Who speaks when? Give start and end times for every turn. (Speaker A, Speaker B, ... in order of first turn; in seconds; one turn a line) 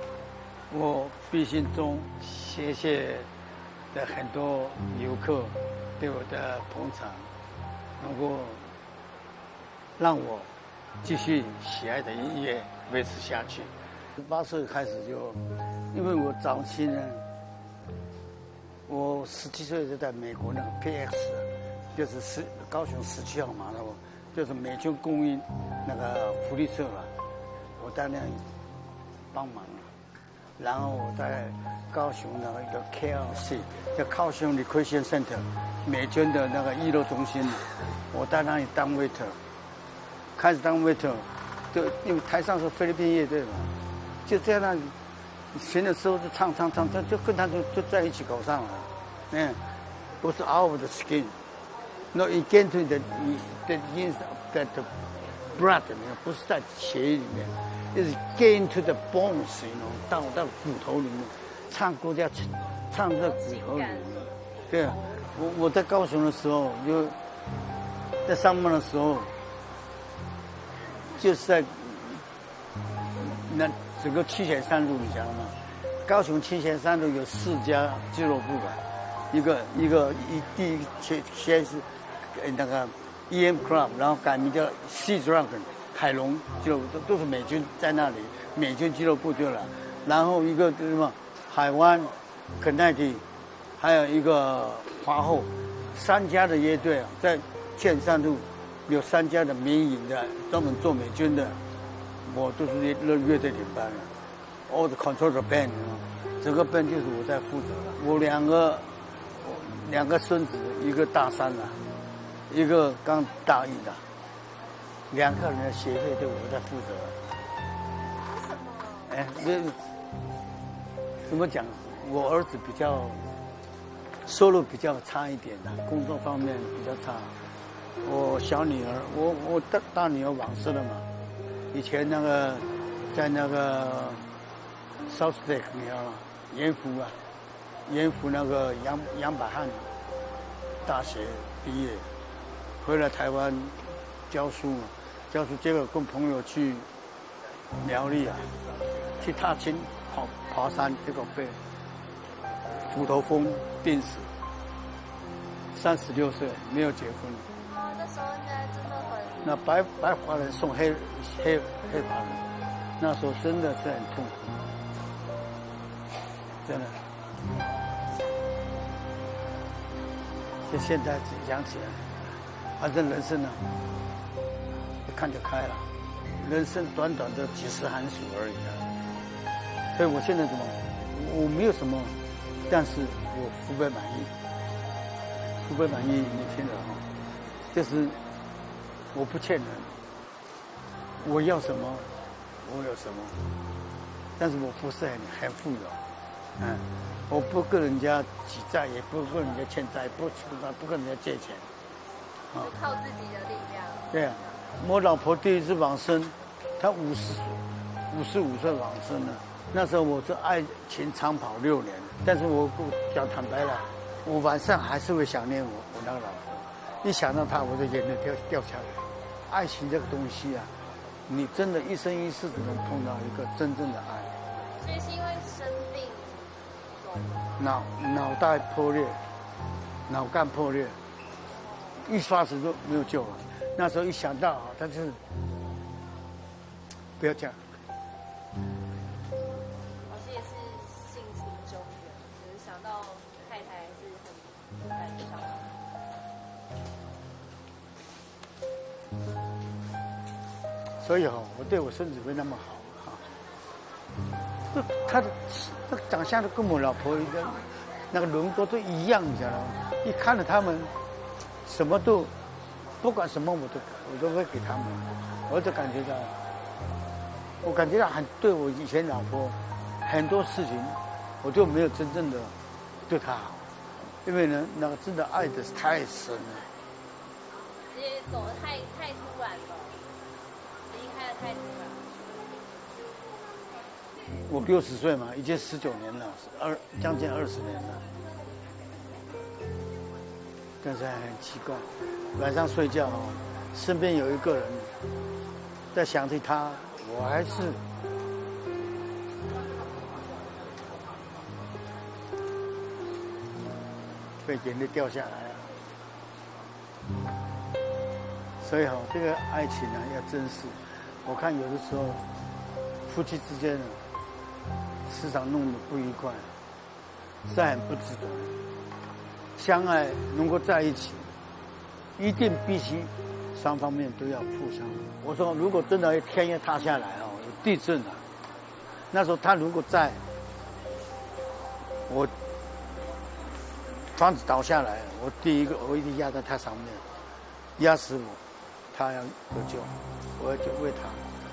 Speaker A: 0.7-3.3
Speaker A: 3.9-7.3
Speaker A: 8.0-8.7
Speaker A: 10.0-10.5
Speaker A: 11.0-17.2
Speaker A: 18.9-27.1
Speaker A: 27.8-28.4
Speaker A: 29.3-29.9
Speaker A: 30.6-39.4
Speaker A: 40.4-43.7
Speaker A: 44.2-44.9
Speaker A: 45.5-49.6
Speaker A: 50.2-51.4
Speaker A: 52.1-54.9
Speaker A: 55.5-67.2
Speaker B: 63.2-65.2
Speaker A: 68.2-69.3
Speaker A: 71.1-72.2
Speaker A: 73.2-78.8
Speaker A: 79.3-93.2
Speaker A: 93.8-101.6
Speaker A: 102.2-104.1
Speaker A: 104.7-111.8
Speaker A: 112.5-114.0
Speaker A: 115.1-117.2
Speaker B: 118.2-119.2
Speaker A: 119.1-119.8
Speaker A: 121.3-123.3
Speaker A: 124.2-127.3
Speaker A: 128.0-131.1
Speaker A: 131.7-134.2
Speaker A: 135.1-137.2
Speaker A: 137.8-139.9
Speaker A: 140.8-142.1
Speaker A: 142.8-146.9
Speaker A: 147.8-148.5
Speaker A: 149.2-151.6
Speaker A: 152.8-154.3
Speaker A: 155.7-157.5
Speaker B: 157.6-159.4
Speaker A: 159.4-162.4
Speaker A: 163.0-164.6
Speaker A: 166.6-167.0
Speaker A: 170.7-173.6
Speaker A: 175.1-178.9
Speaker A: 179.9-184.3
Speaker A: 185.6-187.0
Speaker A: 187.7-188.2
Speaker A: 189.1-190.0
Speaker A: 191.2-192.1
Speaker A: 192.6-193.4
Speaker A: 194.4-196.0
Speaker A: 196.6-201.7
Speaker B: 202.5-204.1
Speaker A: 204.1-220.7
Speaker A: 221.3-224.3
Speaker B: 224.7-227.6
Speaker A: 227.6-229.2
Speaker A: 230.1-231.0
Speaker B: 231.5-232.0
Speaker A: 232.0-235.2
Speaker A: 237.2-237.6
Speaker B: 240.1-245.7
Speaker A: 251.0-253.2
Speaker A: 254.7-260.9
Speaker A: 261.6-262.3
Speaker A: 263.0-266.3
Speaker A: 267.6-272.5
Speaker A: 273.1-276.7
Speaker B: 277.9-280.0
Speaker B: 280.9-282.2
Speaker A: 284.5-288.0
Speaker A: 290.8-294.9
Speaker A: 295.9-297.8
Speaker A: 304.4-305.7
Speaker A: 308.6-312.2
Speaker A: 313.0-314.0
Speaker A: 315.0-316.5
Speaker A: 317.4-318.6
Speaker A: 319.6-321.3
Speaker A: 322.2-328.2
Speaker A: 329.1-330.2
Speaker A: 332.1-332.3
Speaker A: 334.1-337.0
Speaker A: 337.8-338.4
Speaker A: 338.9-341.2